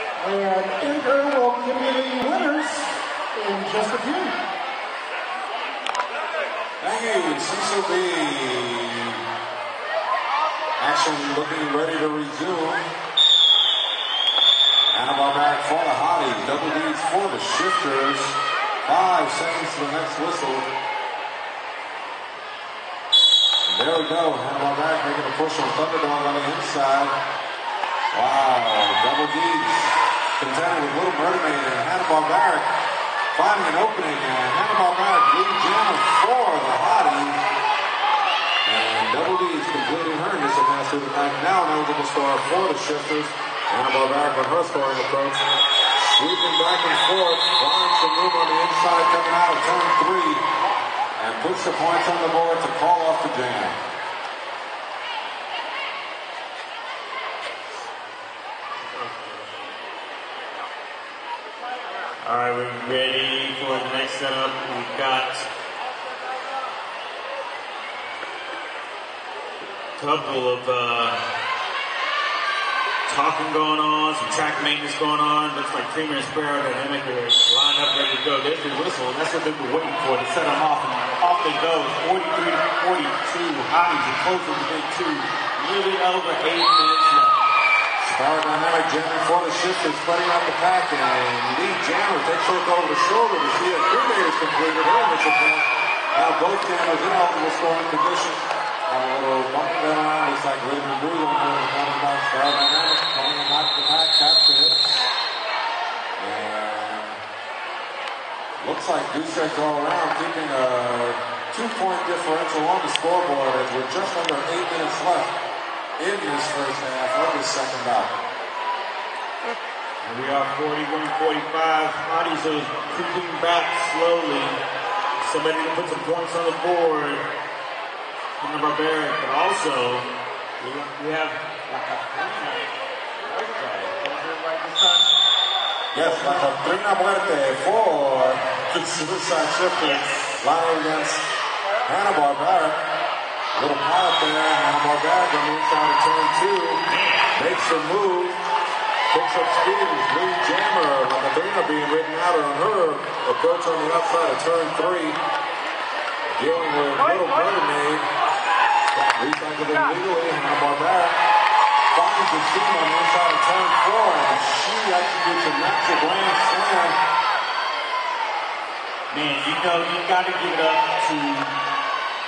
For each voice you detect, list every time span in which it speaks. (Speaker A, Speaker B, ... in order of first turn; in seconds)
Speaker A: 0.2-4.3
Speaker B: 6.8-9.2, 10.8-12.8, 14.9-20.7, 23.7-27.1, 28.1-32.7, 33.3-37.4, 38.6-45.4, 46.0-50.4, 51.2-53.8, 88.0-105.0, 106.2-107.2, 108.6-115.3, 116.0-118.1, 135.9-141.2, 141.9-142.8, 143.6-146.8, 147.4-148.4, 149.1-155.2, 156.3-158.1, 158.9-161.2, 161.9-167.0
Speaker C: 58.8-59.7, 62.2-65.5, 70.0-71.2, 73.1-87.4, 120.0-124.6, 125.2-127.2, 128.4-130.1, 130.6-135.1, 136.0-136.5, 139.8-140.4, 146.9-147.3, 169.1-171.5